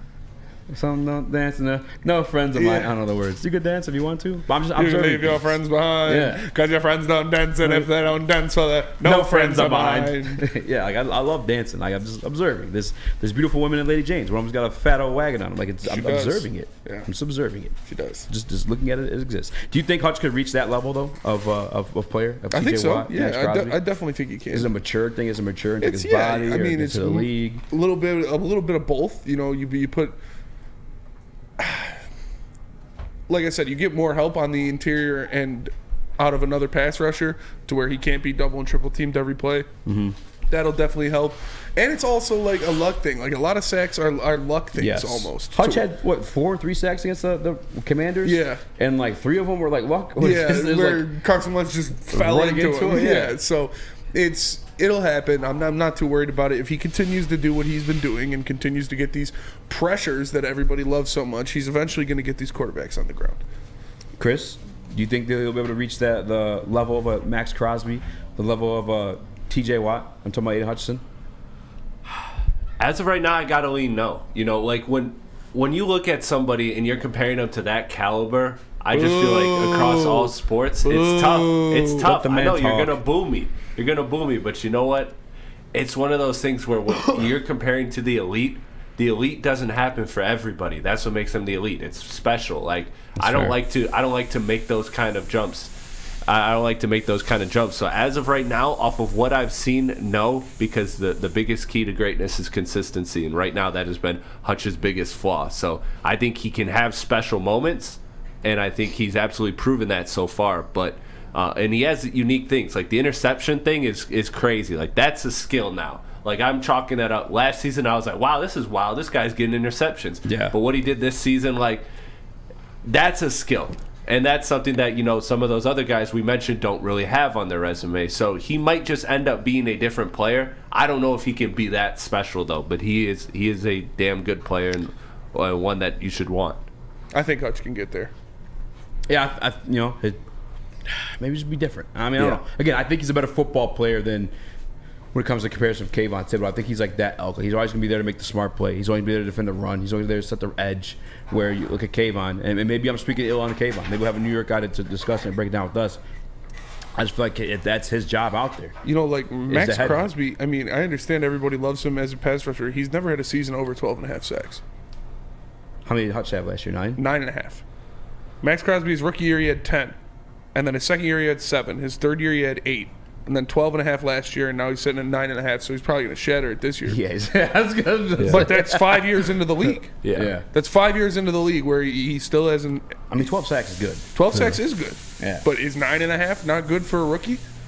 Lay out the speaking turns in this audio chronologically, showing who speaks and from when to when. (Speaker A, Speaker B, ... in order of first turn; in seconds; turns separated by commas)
Speaker A: 0.7-6.4, Speaker B: 2.5-2.9, Speaker B: 4.7-10.4, Speaker A: 7.6-7.9, Speaker A: 9.0-17.8, Speaker B: 15.8-17.1, Speaker B: 17.8-18.3, Speaker A: 18.3-23.8, Speaker B: 22.5-24.7, Speaker A: 24.5-27.6, Speaker B: 25.8-30.2, Speaker B: 31.6-32.0, Speaker B: 33.3-39.7, Speaker A: 39.9-40.2, Speaker B: 40.5-45.8, Speaker A: 44.8-51.1, Speaker B: 48.2-48.6, Speaker B: 50.2-63.4, Speaker A: 52.1-53.4, Speaker A: 64.2-71.0, Speaker C: 72.8-85.2, Speaker B: 78.9-80.3, Speaker B: 80.8-82.1, Speaker A: 82.0-83.0, Speaker C: 85.7-95.7, Speaker A: 93.2-93.6, Speaker C: 96.3-121.9, Speaker A: 120.2-120.6, Speaker C: 122.8-136.6, Speaker B: 137.1-138.1, Speaker A: 139.1-140.2, Speaker A: 140.9-144.3, Speaker A: 145.1-156.0, Speaker A: 157.0-158.8, Speaker B: 158.8-164.6, Speaker A: 159.5-160.1, Speaker A: 165.8-167.0, Speaker B: 167.0-167.6, Speaker B: 168.4-170.0, Speaker B: 170.5-177.0, Speaker A: 176.9-179.1, Speaker C: 178.2-178.5, Speaker B: 178.2-180.0, Speaker C: 180.0-180.4, Speaker A: 180.1-180.5, Speaker B: 180.5-183.0, Speaker A: 183.1-184.6, Speaker B: 184.1-187.4, Speaker A: 185.2-185.4